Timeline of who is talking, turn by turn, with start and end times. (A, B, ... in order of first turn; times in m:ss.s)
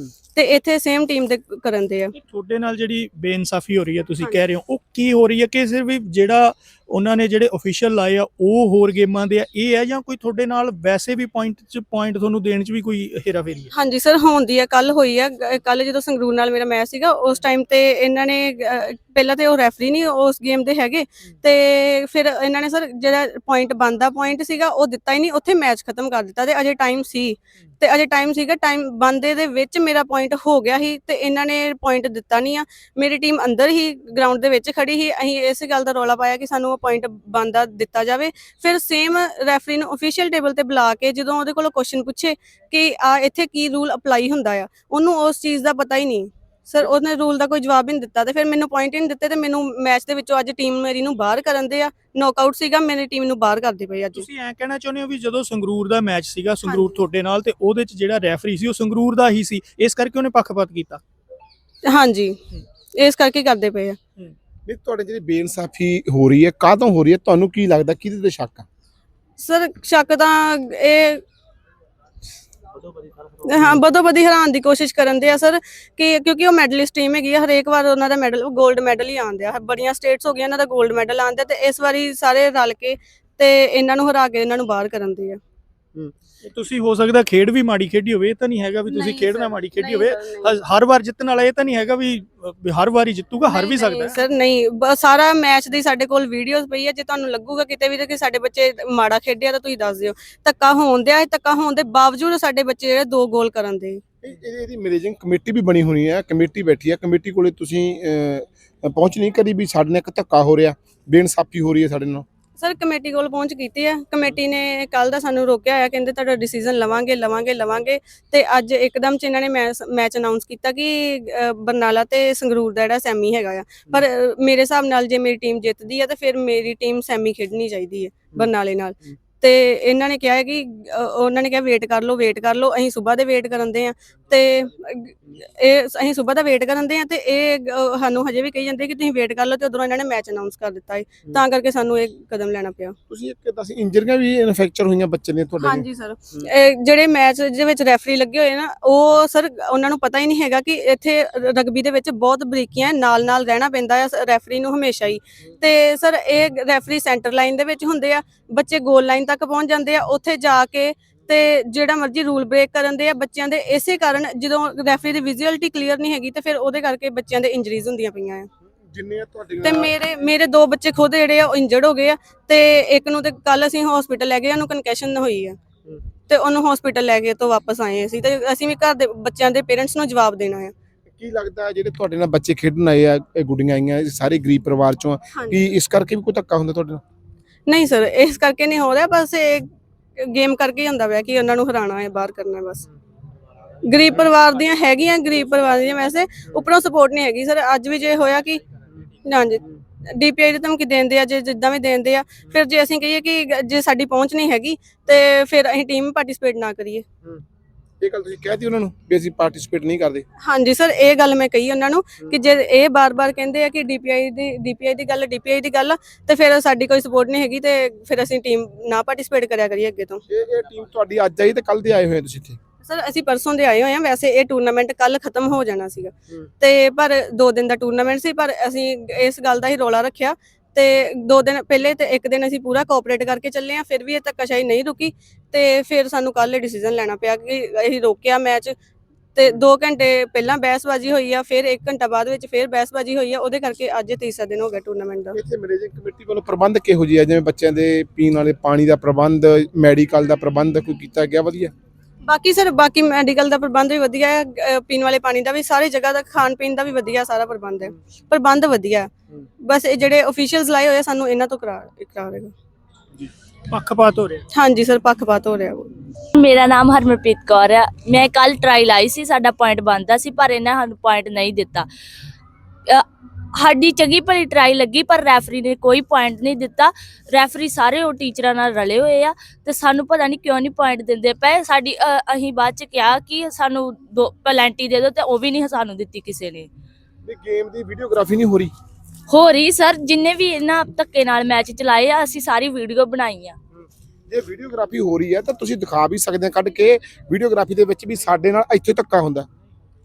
0:00.3-0:02.1 A
0:02.2-0:13.7 B
0:13.7-0:54.2 A
0:54.1-1:01.0 B
0:56.6-0:57.0 A
1:01.8-1:02.3 A
1:03.0-1:04.0 A
1:04.6-1:08.6 C
1:09.4-1:11.2 A
1:13.4-1:25.4 A
1:26.4-1:34.2 B
1:28.9-1:30.5 A
1:33.4-1:44.0 A
1:44.2-1:52.2 C
1:52.6-2:22.9 A
2:23.1-2:26.5 C
2:25.6-2:48.5 A
2:48.9-2:49.9 C
2:49.6-2:55.6 A
2:56.3-3:00.7 A
3:01.2-3:07.0 C
3:05.3-3:05.6 A
3:07.7-3:09.7 A
3:10.2-3:12.9 A
3:13.9-3:18.6 A
3:19.2-3:19.6 A
3:20.2-3:27.0 A
3:28.0-3:30.2 C
3:30.4-3:40.2 A
3:40.3-3:42.6 C
3:42.8-3:58.7 A
3:59.3-4:05.4 A
4:05.3-4:11.7 C
4:12.2-4:19.1 A
4:19.6-4:22.5 A
4:23.2-4:24.5 B
4:24.5-4:25.9 A
4:26.4-4:31.9 D
4:33.5-4:46.7 D
4:47.2-4:48.7 C
4:49.3-4:53.6 D
4:53.8-4:59.5 C